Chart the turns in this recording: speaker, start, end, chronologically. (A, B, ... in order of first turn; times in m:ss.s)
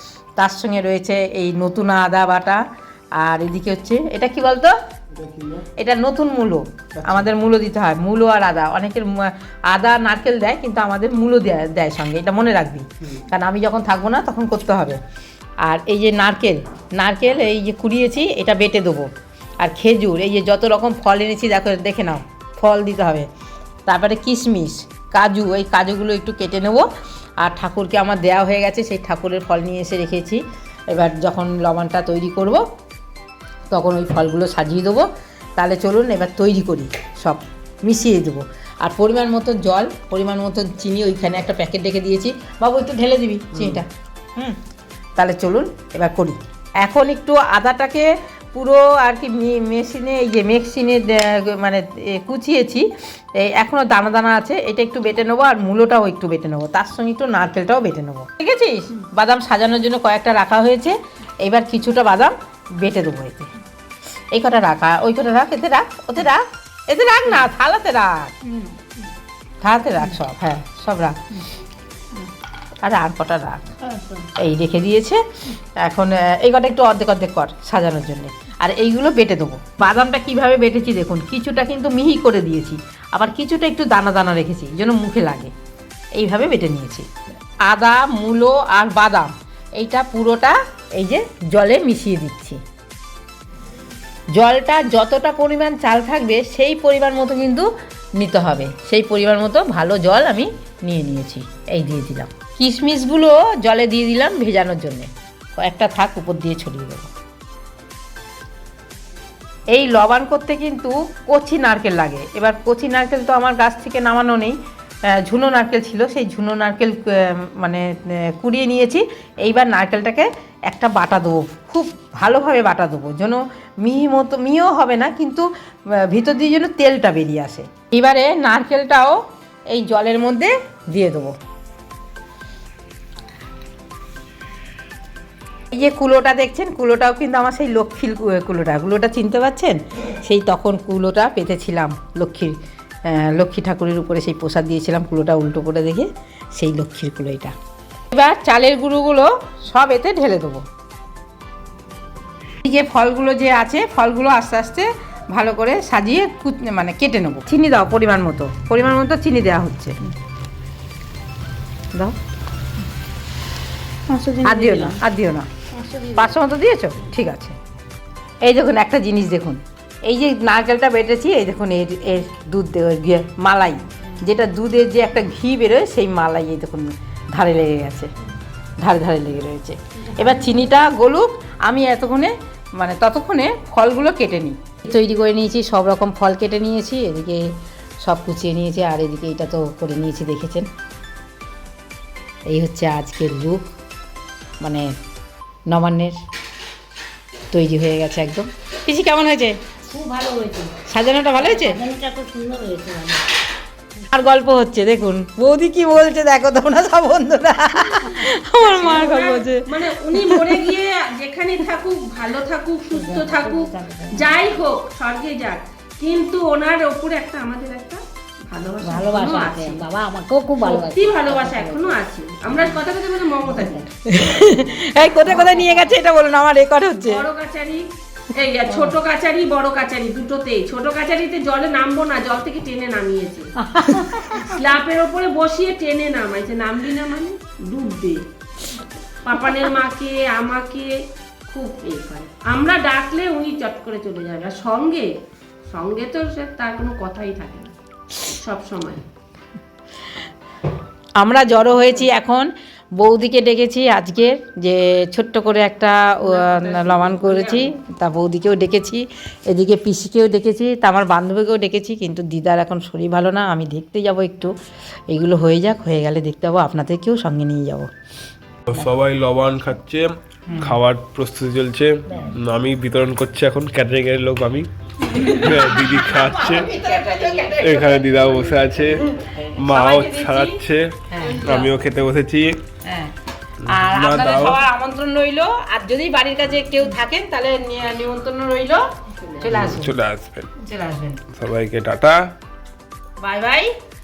0:00.4-0:02.6 A
0:03.2-0:04.7 A
0:05.8-0:15.0 A
0:15.6-0:19.1 A
0:19.6-0:23.3 A
0:23.8-0:26.9 A
0:27.4-0:32.6 A
0:33.7-0:35.0 A
0:35.6-0:44.6 A
0:45.2-1:03.5 A
1:04.3-1:08.4 A
1:09.6-1:11.2 A
1:12.8-1:13.7 A
1:13.9-1:14.2 B
1:14.3-1:25.5 A
1:26.2-1:27.1 A
1:27.7-1:32.6 A
1:34.4-1:47.1 A
1:49.7-1:54.6 A
1:55.2-2:09.2 A
2:09.7-2:11.3 A
2:15.7-2:27.5 A
2:28.1-2:30.6 A
2:32.6-2:40.0 A
2:44.1-2:45.0 B
2:44.4-2:45.5 A
2:45.7-2:46.3 B
2:46.1-2:47.6 A
2:48.4-2:58.1 A
2:58.8-3:07.5 A
3:08.0-3:10.7 A
3:12.5-3:13.7 A
3:14.6-3:14.9 A
3:15.7-3:16.2 A
3:17.5-3:19.6 A
3:19.8-3:20.7 B
3:20.8-3:21.8 A
3:21.4-3:23.2 B
3:24.1-3:30.6 A
3:28.5-3:39.8 C
3:32.9-3:34.3 B
3:38.8-3:42.7 B
3:40.6-3:43.8 C
3:43.5-3:43.8 B
3:44.1-3:47.2 A
3:45.2-3:45.9 B
3:47.0-3:53.5 C
3:53.8-3:54.4 B
3:53.8-3:54.5 A
3:54.5-3:58.2 C
3:59.2-4:00.9 C
4:01.5-4:05.1 C
4:05.7-4:07.7 C
4:08.2-4:09.0 C
4:11.2-4:24.5 A
4:16.2-4:17.6 C
4:25.1-4:27.9 A
4:28.7-4:36.7 D
4:35.0-4:38.3 A
4:37.5-4:40.9 D
4:39.7-4:41.7 A
4:41.4-4:42.6 D
4:42.8-4:43.1 A
4:43.6-4:48.8 A
4:43.7-4:44.6 D
4:49.4-4:49.9 A
4:49.4-4:50.5 D
4:50.6-4:51.2 A
4:51.3-4:52.2 D
4:53.2-4:53.7 A